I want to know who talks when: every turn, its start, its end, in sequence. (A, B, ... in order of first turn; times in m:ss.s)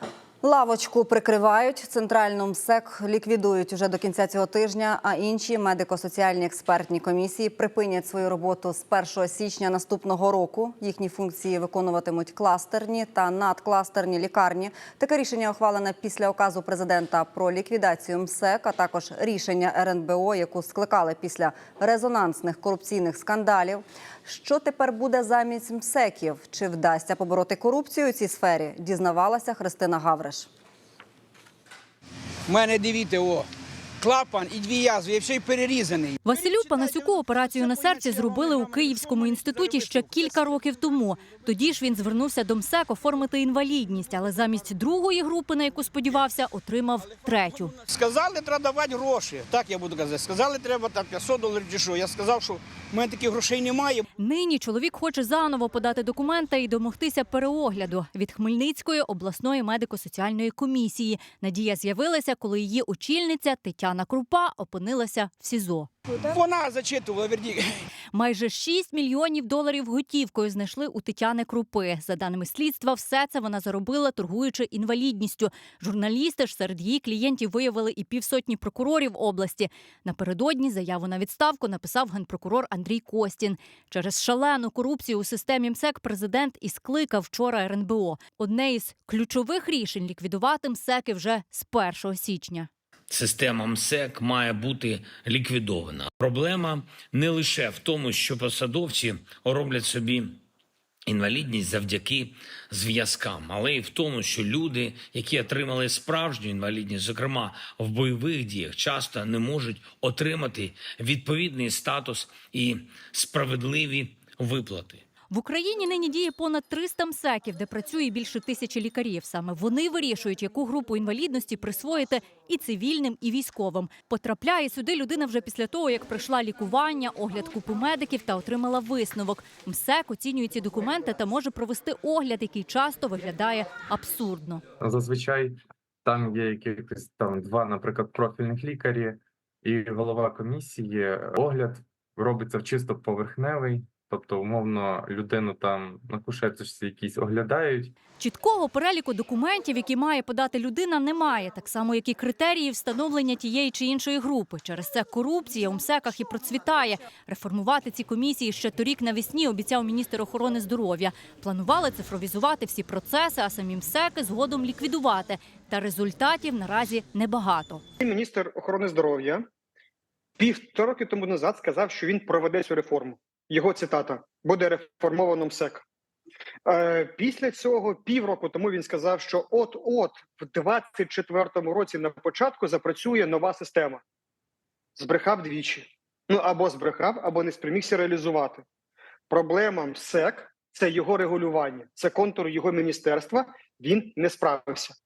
0:00.4-0:30.5 A
0:32.5-0:33.5 B
0:34.0-0:40.4 B
0:36.2-0:47.7 C
0:47.8-0:54.0 B
0:54.2-1:05.9 C
1:06.2-1:07.6 B
1:08.1-1:32.7 C
1:33.1-1:40.4 D
1:41.1-1:55.0 D
1:55.3-2:14.6 C
2:14.8-2:27.9 E
2:28.2-2:47.8 C
2:48.0-2:49.4 F
2:50.4-2:55.8 F
2:56.6-3:04.0 F
3:05.0-3:08.6 F
3:09.3-3:14.9 F